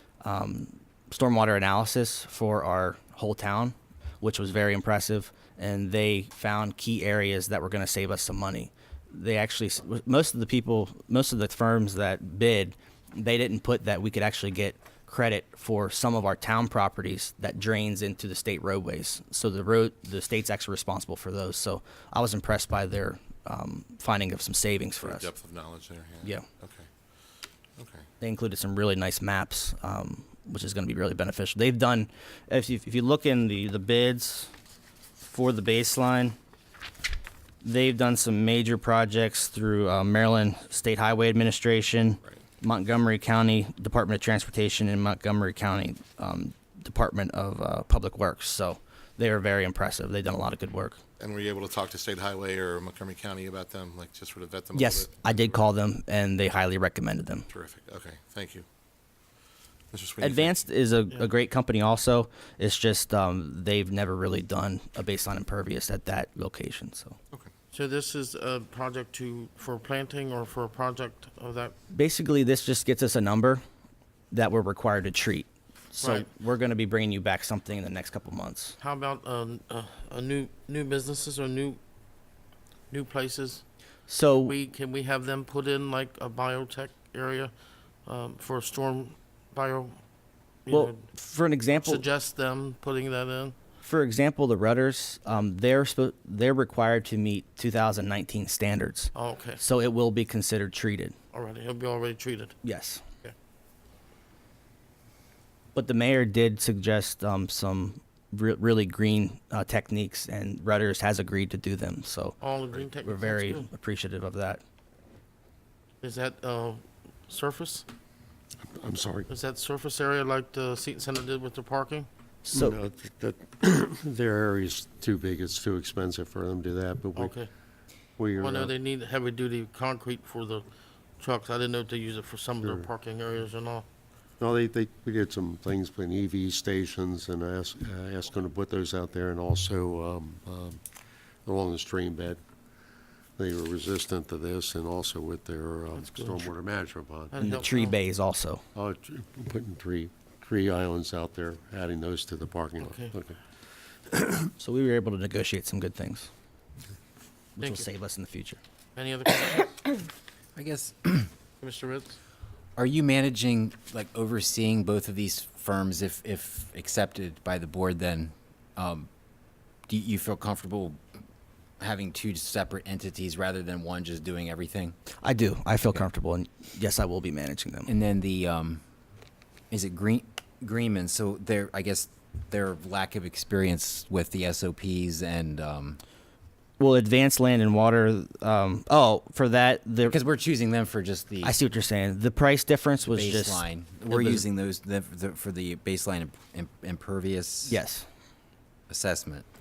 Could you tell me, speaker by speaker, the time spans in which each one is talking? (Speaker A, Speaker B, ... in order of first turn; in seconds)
Speaker A: 0.2-25.3, 28.2-34.5, 35.2-36.4, 37.6-51.0, 54.7-57.5, 60.2-67.2, 71.9-73.6, 74.3-78.8, 84.1-84.5, 90.7-92.0, 93.8-101.1, 102.6-103.0, 105.7-112.4, 113.0-114.6, 122.5-122.8, 147.4-148.6, 154.6-156.3, 157.6-158.6, 175.2-177.9, 186.8-190.2, 191.4-194.4, 197.7-198.1
Speaker B: 25.0-26.9, 27.8-28.1, 51.2-55.7, 57.5-58.6, 59.9-60.5
Speaker C: 67.7-71.8, 76.0-76.3, 78.8-81.8, 82.9-83.6, 84.4-87.5, 88.0-90.0, 90.7-91.1, 91.7-93.5, 99.1-99.6, 101.3-102.5, 112.4-113.7, 116.0-117.9, 119.3-122.1, 127.2-127.5, 128.4-130.7, 131.2-133.8, 146.0-146.4, 147.3-148.0, 152.8-153.1, 157.6-157.9, 158.9-159.7, 161.6-162.2
Speaker D: 118.7-119.3, 122.5-127.4, 128.2-128.7, 132.6-132.9, 134.4-140.8, 141.4-142.4, 143.4-147.6, 148.7-153.4
Speaker E: 160.5-161.3, 162.8-169.1, 169.9-171.0, 171.8-175.0, 177.9-178.8, 179.7-186.0, 190.1-191.6, 193.0-197.8, 198.9-199.4